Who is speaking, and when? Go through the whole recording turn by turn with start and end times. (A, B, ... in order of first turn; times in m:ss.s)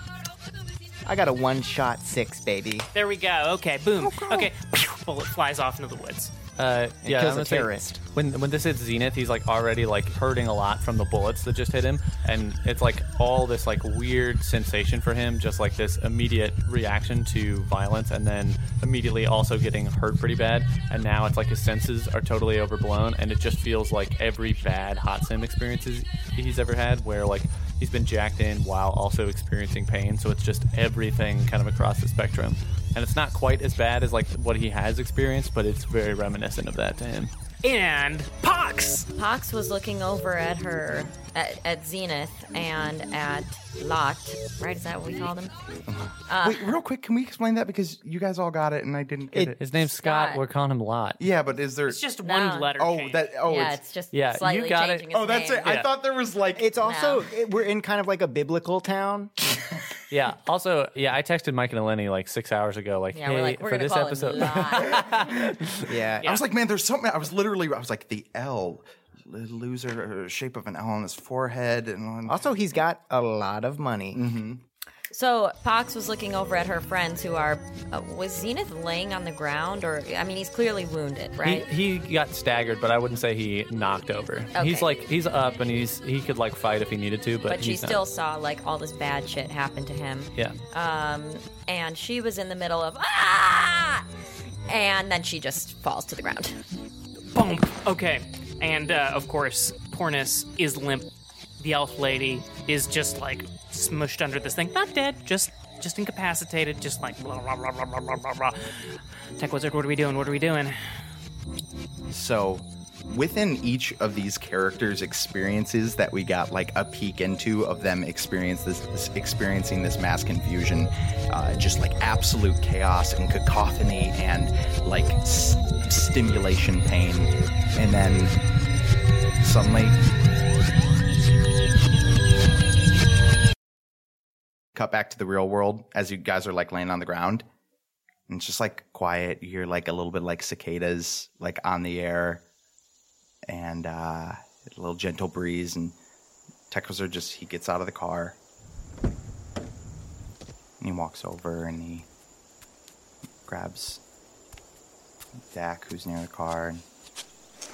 0:01.0-0:02.9 A
0:02.9-0:06.3 B
0:04.0-0:04.5 A
0:06.6-0:37.3 C
0:07.0-0:08.0 A
0:37.6-0:39.1 B
0:39.2-0:45.5 D
0:45.9-0:49.8 E
0:46.3-0:46.7 D
0:49.6-0:51.2 C
0:50.0-0:50.4 D
0:51.2-0:52.0 E
0:51.9-0:53.3 B
0:52.2-0:52.7 D
0:52.8-0:53.8 E
0:53.4-0:55.8 D
0:54.1-0:55.0 C
0:55.1-0:56.7 E
0:56.6-0:59.3 A
0:56.8-0:57.2 D
1:00.1-1:05.9 C
1:03.1-1:05.1 D
1:05.9-1:06.3 A
1:06.2-1:12.4 E
1:12.3-1:14.2 A
1:14.1-1:14.6 E
1:15.1-1:21.7 D
1:21.4-1:28.0 C
1:24.5-1:24.9 D
1:27.4-1:34.1 D
1:34.7-1:36.6 D
1:37.3-1:50.8 B
1:52.1-2:08.3 E
2:09.4-2:10.0 E
2:14.7-2:17.4 E
2:18.3-2:22.4 E
2:23.5-2:26.0 E
2:26.7-2:28.4 E
2:30.8-2:32.1 E
2:33.4-2:34.0 E
2:35.5-2:36.8 E